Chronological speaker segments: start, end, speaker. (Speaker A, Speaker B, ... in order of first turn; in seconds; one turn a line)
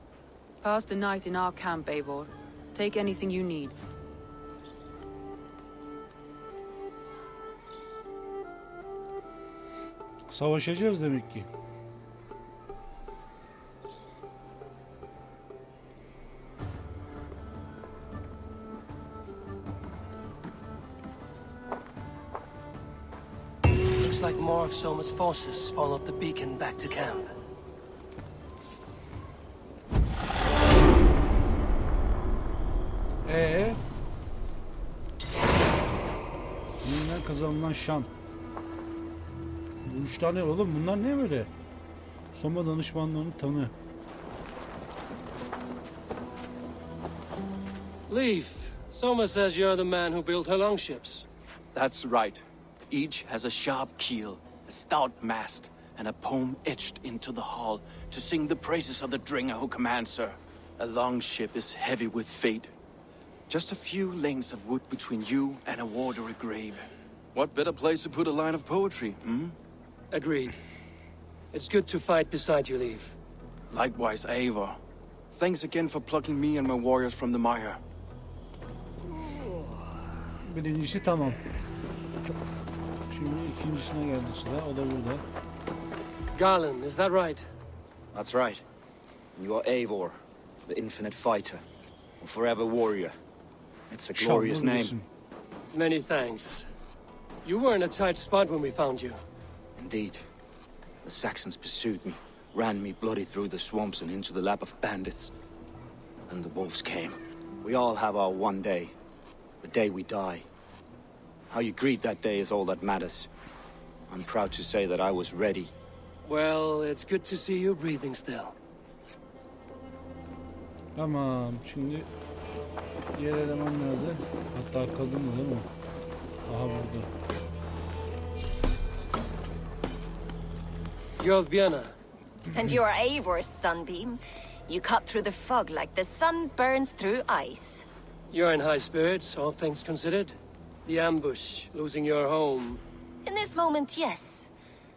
Speaker A: 0.6-3.8
Speaker B: 10.3-11.5
Speaker C: 24.0-27.3
Speaker B: 33.2-33.8
Speaker B: 36.8-38.1
Speaker B: 39.8-41.5
Speaker B: 42.3-43.7
Speaker C: 48.1-51.2
Speaker D: 51.7-62.7
Speaker D: 63.5-69.5
Speaker C: 70.1-70.6
Speaker C: 71.5-73.2
Speaker D: 73.7-74.8
Speaker D: 75.3-77.8
Speaker B: 80.4-81.4
Speaker B: 83.1-85.2
Speaker C: 86.3-87.5
Speaker E: 88.1-88.6
Speaker E: 89.3-91.6
Speaker E: 92.2-93.2
Speaker E: 93.9-94.9
Speaker B: 94.1-95.1
Speaker C: 95.7-96.7
Speaker C: 97.4-99.2
Speaker E: 99.8-100.2
Speaker E: 101.0-105.3
Speaker E: 106.3-108.9
Speaker E: 109.6-110.5
Speaker E: 111.5-113.3
Speaker E: 114.1-115.7
Speaker C: 116.2-118.5
Speaker B: 121.0-122.1
Speaker B: 123.1-125.7
Speaker B: 126.5-127.1
Speaker C: 131.2-131.9
Speaker F: 132.5-137.8
Speaker C: 138.3-142.8
Speaker F: 143.2-144.5